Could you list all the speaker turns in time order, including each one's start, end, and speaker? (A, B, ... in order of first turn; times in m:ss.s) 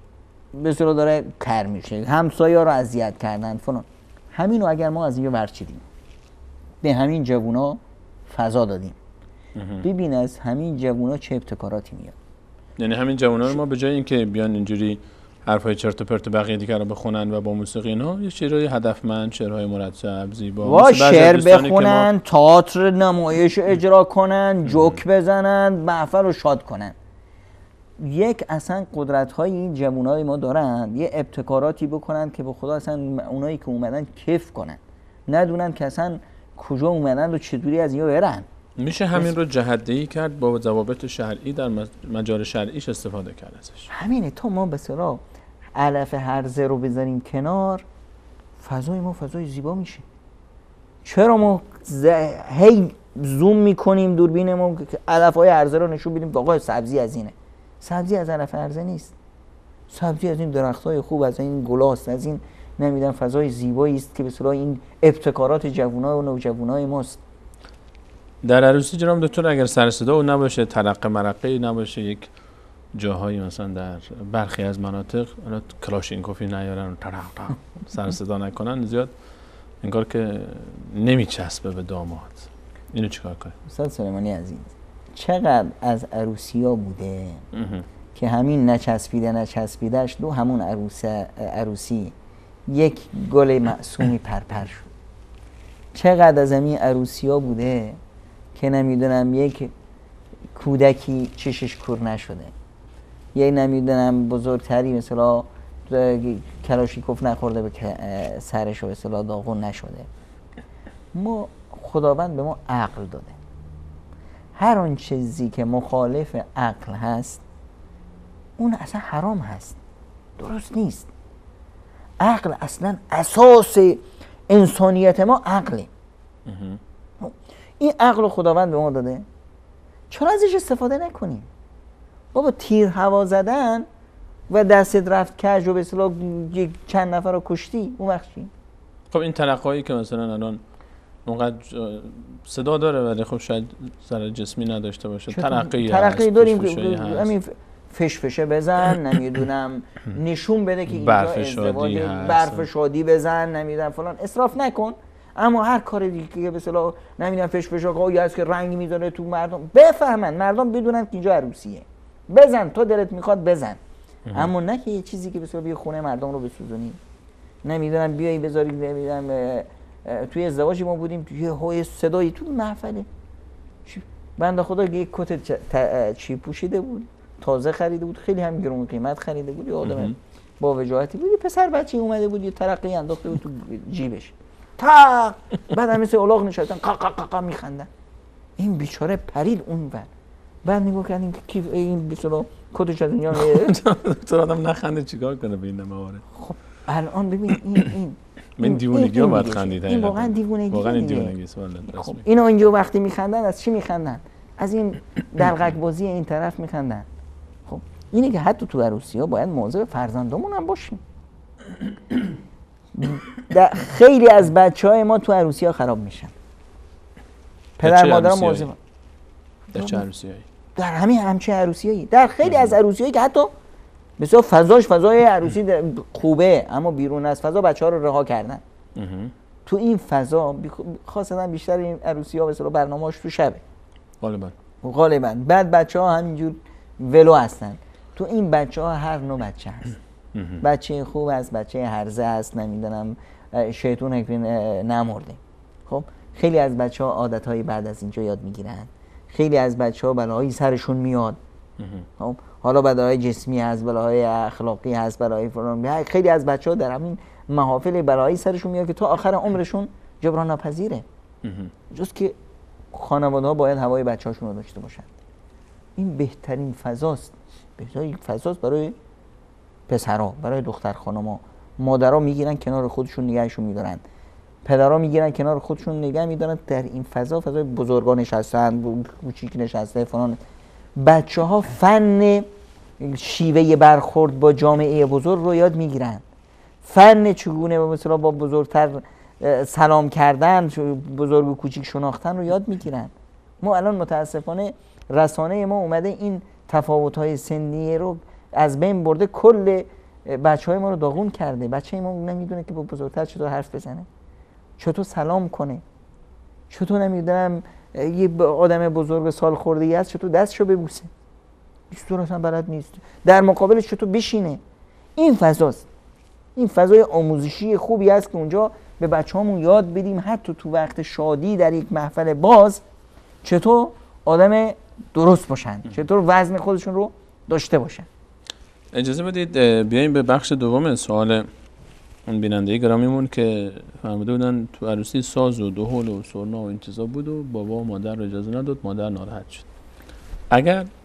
0:00.5-0:05.8 A
0:06.8-0:09.0 A
0:09.6-0:09.9 B
0:09.8-0:12.2 A
0:12.8-0:22.1 B
0:20.6-0:27.0 A
0:24.7-0:25.0 B
0:28.0-0:38.5 A
0:38.8-0:43.9 B
0:43.9-0:45.2 A
0:45.8-0:47.8 A
0:48.6-0:50.0 A
0:51.0-0:59.1 A
0:59.9-1:07.2 A
1:08.4-1:12.3 B
1:12.9-1:19.1 B
1:19.8-1:23.6 B
1:23.7-1:27.4 A
1:27.5-1:27.9 B
1:28.1-1:32.1 A
1:32.7-1:34.9 A
1:35.9-1:38.0 A
1:38.6-1:39.7 A
1:40.6-1:42.5 A
1:43.4-1:50.1 A
1:51.1-1:53.3 A
1:54.6-1:57.4 A
1:58.6-1:59.8 A
2:00.4-2:01.1 A
2:02.2-2:05.9 A
2:06.5-2:06.8 B
2:07.2-2:09.3 A
2:10.1-2:11.5 A
2:12.3-2:13.9 A
2:14.5-2:18.5 A
2:19.1-2:20.6 B
2:21.2-2:27.4 B
2:25.3-2:43.8 A
2:30.9-2:32.7 B
2:44.3-2:44.5 B
2:44.3-2:47.0 A
2:47.6-2:53.1 A
2:53.9-3:07.9 A
2:59.8-3:00.2 B
3:08.6-3:10.1 A
3:10.6-3:13.8 A
3:13.3-3:16.2 B
3:16.4-3:21.4 A
3:18.6-3:22.2 B
3:21.9-3:27.1 A
3:27.7-3:31.0 A
3:33.0-3:36.3 A
3:37.8-3:38.7 B
3:37.8-3:38.8 A
3:39.7-3:40.5 B
3:39.7-3:40.1 A
3:40.8-3:43.5 A
3:42.4-3:42.8 B
3:44.2-3:48.6 A
3:49.0-3:49.3 B
3:49.7-3:53.6 A
3:54.2-3:54.6 B
3:54.8-4:00.0 A
4:00.3-4:00.6 B
4:00.6-4:11.4 A
4:11.8-4:12.1 B
4:12.2-4:21.0 A
4:21.4-4:21.7 B
4:21.9-4:22.4 A
4:22.9-4:25.1 A
4:26.0-4:29.0 A
4:29.9-4:34.0 A
4:34.6-4:40.4 A
4:41.0-4:42.5 A
4:43.0-4:46.2 A
4:46.8-5:04.1 A
5:04.8-5:05.8 A
5:06.7-5:11.1 A
5:11.9-5:14.6 A
5:15.2-5:15.9 A
5:16.6-5:22.8 A
5:23.4-5:28.1 A
5:28.9-5:31.5 B
5:32.3-5:39.7 B
5:40.5-5:40.9 B